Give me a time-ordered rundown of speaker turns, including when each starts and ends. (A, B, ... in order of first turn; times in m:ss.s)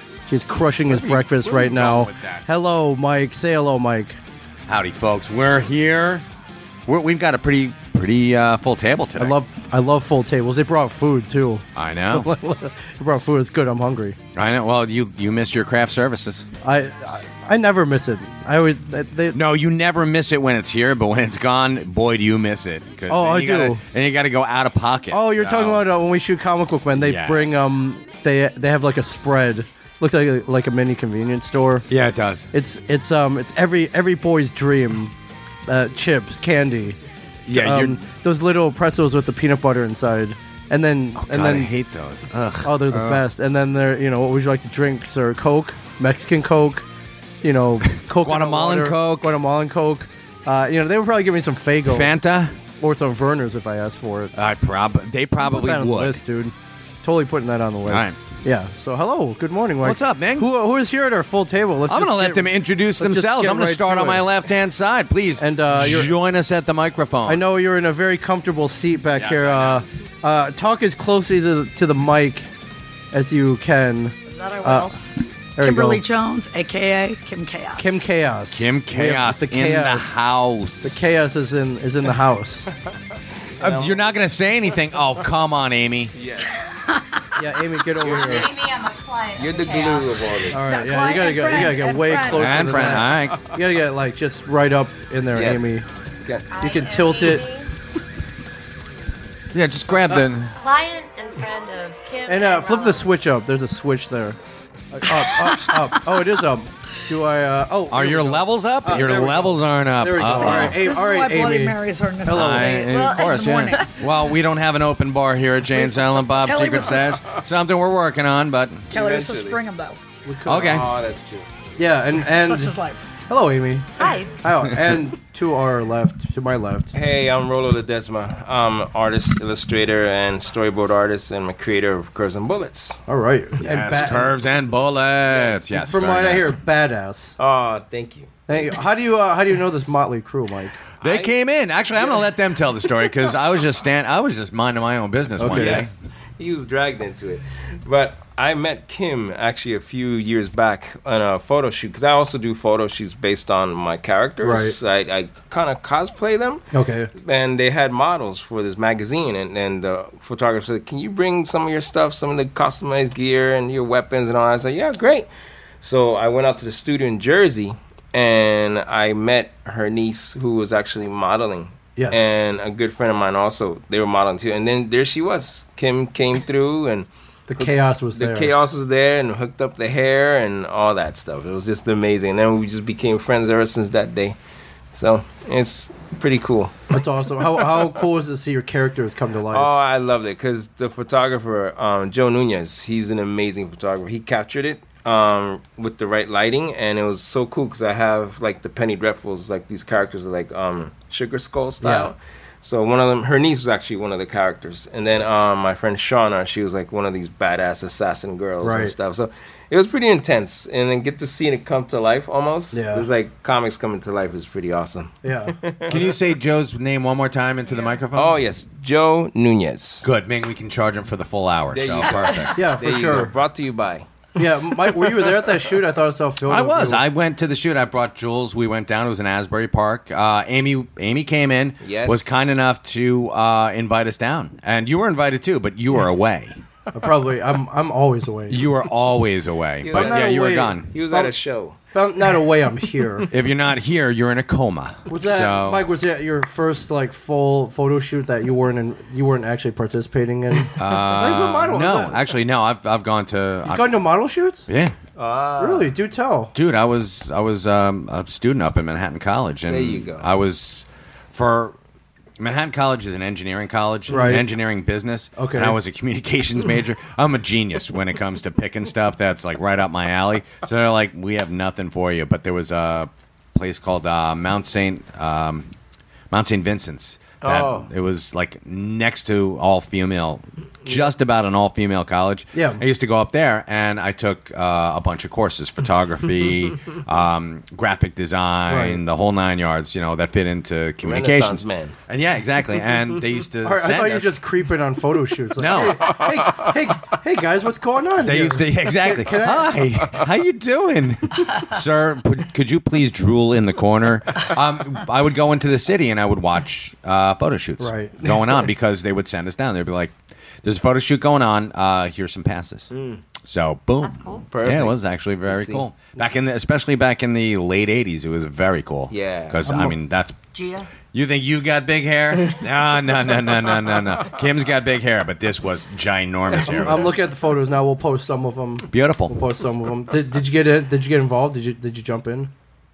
0:00.3-0:04.2 A
0:00.9-0:02.5 B
0:04.7-0:06.2 B
0:06.9-0:09.4 B
0:09.2-0:14.2 A
0:11.8-0:12.3 B
0:14.3-0:16.4 B
0:16.6-0:19.4 A
0:19.3-0:25.9 B
0:23.1-0:23.8 A
0:25.1-0:31.9 A
0:27.0-0:27.8 B
0:31.9-0:32.5 B
0:32.5-0:35.1 A
0:35.7-0:37.0 A
0:37.5-0:38.0 B
0:37.5-0:41.7 A
0:41.2-0:43.3 B
0:42.6-0:46.9 A
0:47.4-0:52.1 A
0:48.0-0:49.3 B
0:51.9-0:52.6 B
0:52.8-0:54.3 A
0:54.3-0:56.2 B
0:55.4-1:04.3 A
0:57.9-0:58.2 B
0:59.8-1:00.5 B
1:01.9-1:07.4 B
1:05.4-1:06.2 A
1:07.3-1:12.5 A
1:09.2-1:09.8 B
1:13.1-1:14.9 A
1:14.3-1:15.0 C
1:15.6-1:16.0 A
1:15.6-1:18.0 C
1:17.8-1:20.1 A
1:18.5-1:21.0 B
1:20.8-1:22.7 A
1:23.6-1:24.0 D
1:23.6-1:26.2 B
1:26.2-1:26.6 D
1:26.7-1:27.1 C
1:27.4-1:28.5 A
1:28.0-1:30.4 E
1:28.0-1:28.5 D
1:29.4-1:30.6 D
1:30.5-1:35.8 A
1:30.6-1:32.6 C
1:32.3-1:33.4 B
1:35.4-1:35.7 D
1:36.5-1:37.7 E
1:36.6-1:37.5 A
1:39.5-1:40.6 B
1:40.6-1:43.1 E
1:42.3-1:44.4 A
1:44.9-1:52.8 A
1:45.1-1:45.9 C
1:47.9-1:50.8 B
1:50.2-1:53.9 C
1:52.3-1:58.9 B
1:52.8-1:53.9 E
1:56.4-1:57.2 C
1:58.9-2:00.0 C
1:58.9-1:59.6 D
2:00.2-2:00.9 A
2:00.4-2:00.9 B
2:00.6-2:01.5 D
2:01.8-2:02.7 A
2:02.4-2:03.0 C
2:03.3-2:06.9 A
2:04.0-2:04.3 E
2:06.9-2:13.0 D
2:13.1-2:14.3 A
2:13.6-2:16.6 B
2:15.3-2:15.6 D
2:15.8-2:17.4 A
2:17.4-2:18.4 D
2:18.5-2:20.8 A
2:21.0-2:21.4 D
2:21.0-2:25.9 B
2:22.0-2:22.3 D
2:25.4-2:25.9 A
2:25.5-2:45.3 D
2:34.4-2:34.8 A
2:36.7-2:37.1 A
2:45.8-2:57.1 D
2:52.0-2:52.2 A
2:57.5-2:58.5 A
2:57.6-3:04.4 D
3:04.9-3:06.9 D
3:06.9-3:09.7 A
3:09.5-3:36.0 D
3:21.8-3:22.1 A
3:28.6-3:28.9 A
3:32.7-3:33.1 A
3:35.2-3:35.6 A
3:35.9-3:38.4 B
3:37.7-3:38.0 E
3:38.1-3:40.1 D
3:40.0-3:42.7 B
3:41.7-3:44.1 D
3:42.6-3:43.3 A
3:44.4-3:47.0 A
3:46.5-3:56.6 B
3:51.8-3:52.3 D
3:56.9-3:58.6 A
3:58.5-4:00.9 B
3:59.8-4:01.8 D
3:59.9-4:01.3 A
4:01.9-4:03.3 A
4:03.3-4:05.8 B
4:05.1-4:12.2 A
4:10.8-4:14.0 B
4:13.7-4:14.7 A
4:14.7-4:15.0 B
4:15.2-4:15.9 D
4:15.6-4:16.5 A
4:16.5-4:21.8 B
4:19.7-4:20.3 D
4:22.4-4:35.7 B
4:24.1-4:24.5 A
4:25.4-4:25.8 A
4:36.3-4:54.4 B
4:37.4-4:37.9 D
4:42.5-4:42.8 A
4:48.7-4:49.0 A
4:51.0-4:51.9 D
4:53.6-4:59.8 A
4:55.6-4:56.2 B
4:58.2-5:12.9 B
5:07.8-5:08.2 A
5:12.9-5:13.2 D
5:13.4-5:20.4 B
5:14.0-5:14.5 E
5:14.5-5:15.8 D
5:19.1-5:19.6 D
5:19.7-5:20.0 A
5:20.5-5:20.9 E
5:21.0-5:27.2 B
5:26.5-5:27.0 D
5:26.7-5:32.5 A
5:28.9-5:29.4 B